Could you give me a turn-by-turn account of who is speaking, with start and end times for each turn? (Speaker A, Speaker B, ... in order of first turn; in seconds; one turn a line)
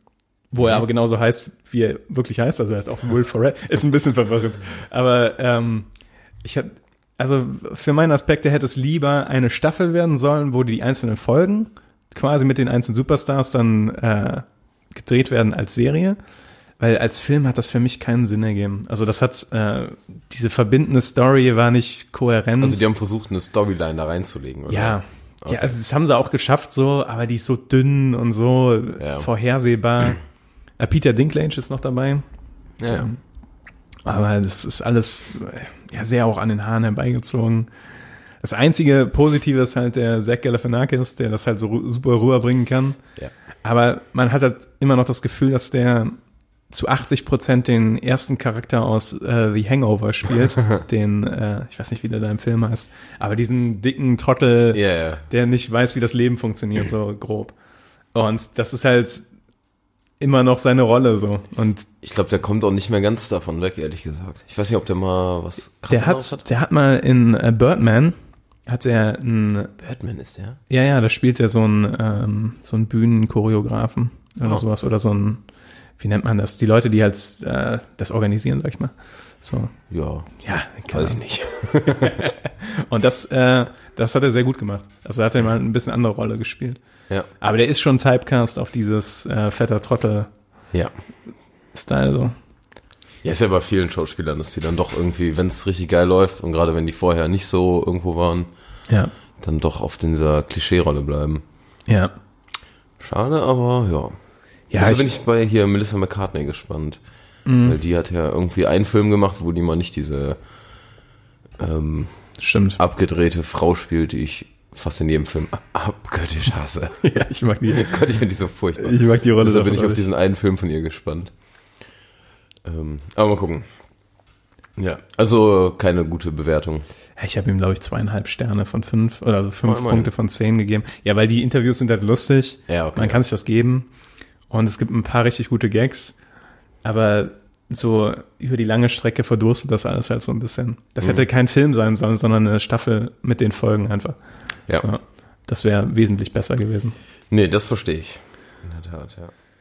Speaker A: 0.5-5.9
Speaker A: 6.4-16.2
Speaker A: 16.8-22.9
Speaker B: 22.6-25.8
Speaker A: 24.7-30.2
Speaker B: 29.0-29.3
Speaker A: 30.8-32.2
Speaker B: 32.8-33.1
Speaker A: 32.9-33.2
Speaker A: 34.1-37.7
Speaker A: 38.4-43.0
Speaker A: 43.6-46.2
Speaker A: 46.7-57.5
Speaker B: 54.7-55.3
Speaker A: 58.1-59.3
Speaker A: 60.2-61.9
Speaker B: 62.0-66.4
Speaker A: 65.9-69.7
Speaker B: 69.8-70.6
Speaker A: 70.7-75.4
Speaker A: 76.0-79.8
Speaker B: 79.9-80.3
Speaker A: 80.4-81.2
Speaker B: 80.9-82.2
Speaker A: 81.7-86.8
Speaker A: 87.4-90.3
Speaker A: 91.7-92.4
Speaker B: 93.2-98.5
Speaker B: 99.4-101.4
Speaker A: 101.9-102.1
Speaker B: 103.0-104.2
Speaker A: 104.7-105.1
Speaker B: 104.8-107.0
Speaker A: 107.5-107.8
Speaker B: 107.6-110.4
Speaker B: 111.6-112.1
Speaker A: 112.4-112.8
Speaker B: 112.8-121.3
Speaker A: 117.0-118.0
Speaker A: 118.8-120.0
Speaker B: 122.6-123.7
Speaker B: 124.8-126.8
Speaker A: 127.2-133.9
Speaker B: 129.6-130.1
Speaker B: 132.7-133.2
Speaker A: 134.5-136.2
Speaker A: 136.8-144.2
Speaker A: 144.8-147.0
Speaker B: 147.3-149.3